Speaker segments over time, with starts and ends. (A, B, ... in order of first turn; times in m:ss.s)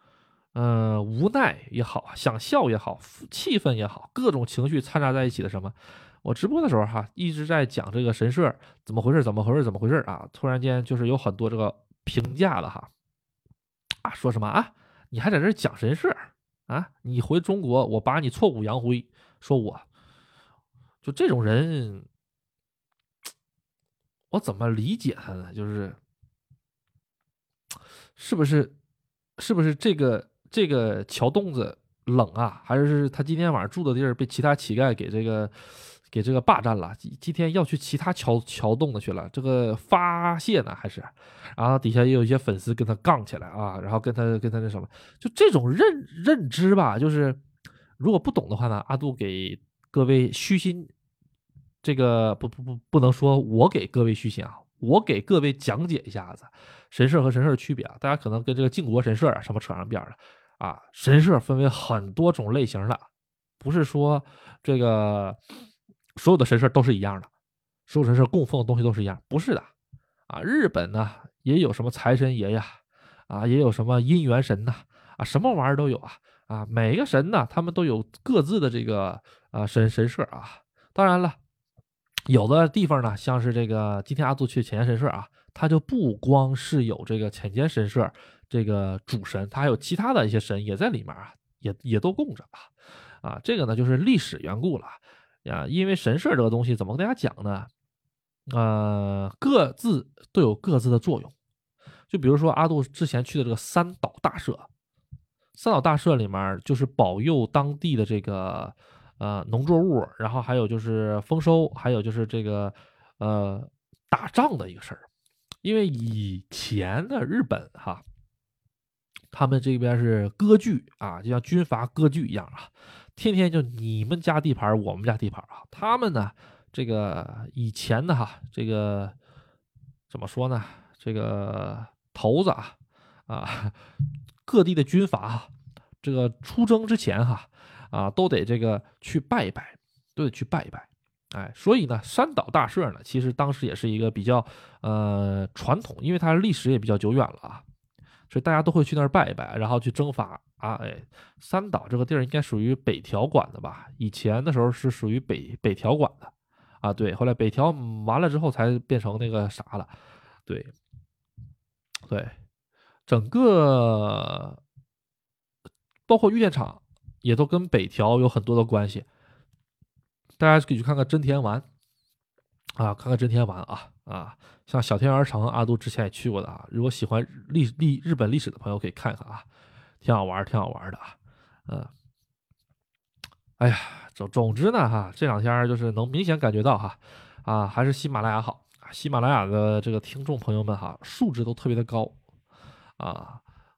0:00.5-0:12.9 A
0:14.0-0:19.8 A
0:21.0-0:22.0 A
0:24.3-0:26.0 A
0:28.2-0:28.7 A
0:29.4-0:47.4 A
0:48.0-0:50.9 A
0:51.8-1:03.0 A
1:03.6-1:05.4 A
1:06.2-1:07.3 A
1:07.9-1:09.7 A
1:10.3-1:21.4 A
1:22.3-1:37.7 A
1:38.5-1:41.3 A
1:42.1-1:44.7 A
1:45.5-1:55.1 A
1:55.6-1:58.0 A
1:59.3-2:09.2 A
2:10.1-2:12.8 A
2:13.3-2:13.8 A
2:14.4-2:15.5 A
2:16.0-2:27.6 A
2:28.3-2:39.9 A
2:40.5-2:40.7 A
2:42.1-2:42.3 A
2:43.1-2:44.6 A
2:46.1-2:49.0 A
2:50.4-2:51.6 A
2:52.8-2:59.4 A
3:00.0-3:01.2 A
3:03.6-3:12.2 A
3:13.0-3:13.4 A